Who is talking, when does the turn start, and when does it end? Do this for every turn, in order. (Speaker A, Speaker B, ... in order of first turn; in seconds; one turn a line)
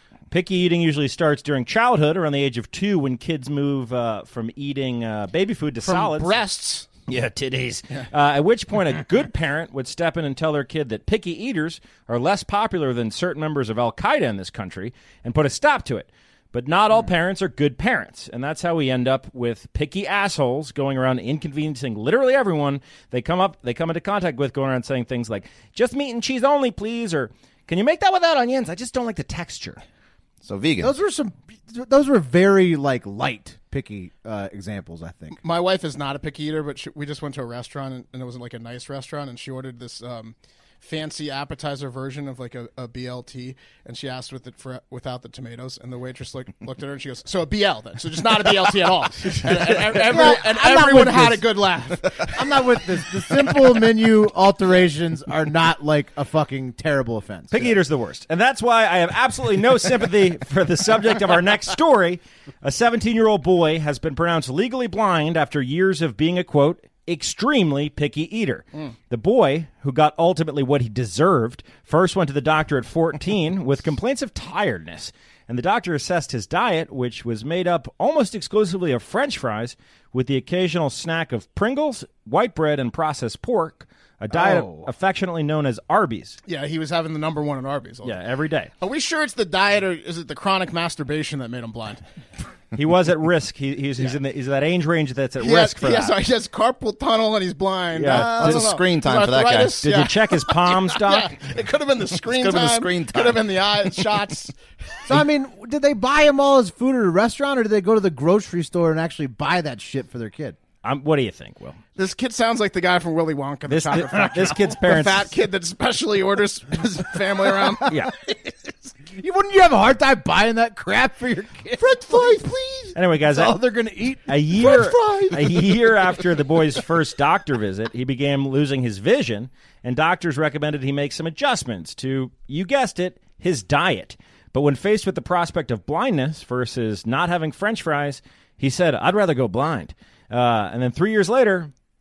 Speaker A: 0.3-6.3
Speaker B: 5.8-6.9
Speaker A: 7.1-29.8
Speaker C: 30.4-30.9
Speaker D: 30.8-35.4
Speaker B: 35.4-53.5
Speaker D: 49.9-51.5
Speaker D: 52.2-57.8
Speaker A: 57.5-86.4
Speaker D: 84.3-84.9
Speaker B: 86.5-88.2
Speaker A: 88.0-88.7
Speaker B: 88.8-92.0
Speaker A: 92.7-96.1
Speaker B: 95.4-104.5
Speaker A: 97.9-98.7
Speaker C: 98.1-99.8
Speaker A: 99.8-101.4
Speaker C: 102.3-104.1
Speaker D: 105.1-110.6
Speaker A: 110.8-111.8
Speaker B: 112.0-117.9
Speaker A: 113.7-115.3
Speaker A: 117.8-118.1
Speaker D: 119.0-122.4
Speaker B: 121.8-123.0
Speaker A: 122.9-123.6
Speaker D: 123.2-124.8
Speaker A: 124.3-141.7
Speaker B: 124.6-125.4